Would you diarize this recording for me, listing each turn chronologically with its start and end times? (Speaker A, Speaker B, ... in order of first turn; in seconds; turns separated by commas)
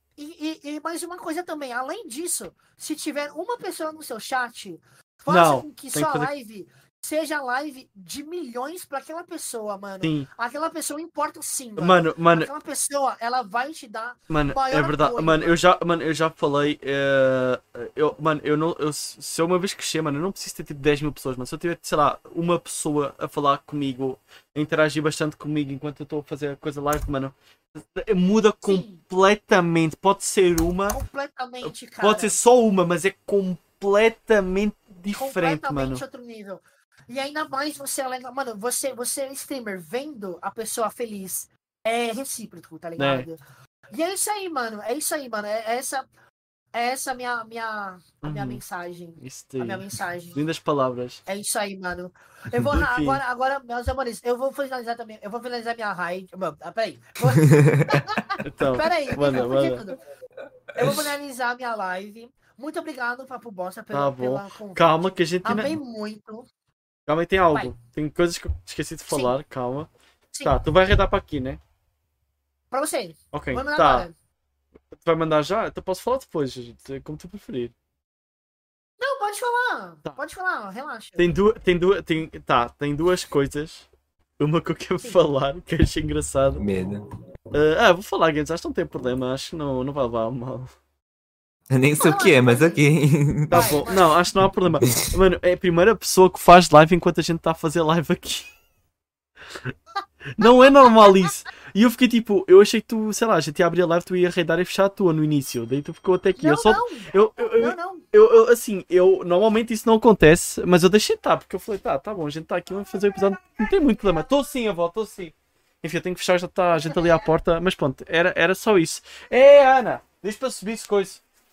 Speaker A: 0.2-15.6, Speaker B: 5.3-6.3, Speaker B: 10.0-10.3, Speaker B: 11.8-12.5, Speaker B: 14.3-31.0, Speaker A: 28.6-29.0, Speaker A: 30.9-32.4, Speaker B: 31.6-36.0, Speaker A: 35.1-43.4, Speaker B: 43.0-43.2, Speaker A: 43.9-46.0, Speaker A: 46.7-50.4, Speaker B: 48.2-48.6, Speaker B: 49.2-49.8, Speaker B: 50.3-51.2, Speaker A: 51.2-60.0, Speaker B: 52.5-53.2, Speaker C: 57.4-58.1, Speaker B: 58.4-59.8, Speaker A: 60.7-66.5, Speaker C: 60.8-61.0, Speaker B: 63.9-65.8, Speaker B: 67.1-69.9, Speaker A: 69.1-69.3, Speaker B: 70.4-71.6, Speaker A: 72.7-74.1, Speaker B: 73.3-74.1, Speaker B: 75.0-77.7, Speaker A: 79.0-81.3, Speaker B: 81.2-83.8, Speaker B: 84.4-86.6, Speaker C: 86.6-87.0, Speaker B: 87.5-90.7, Speaker C: 91.7-93.8, Speaker A: 92.0-92.8, Speaker A: 93.5-94.2, Speaker B: 93.5-98.5, Speaker B: 100.4-121.2, Speaker A: 100.4-101.4, Speaker A: 106.4-108.1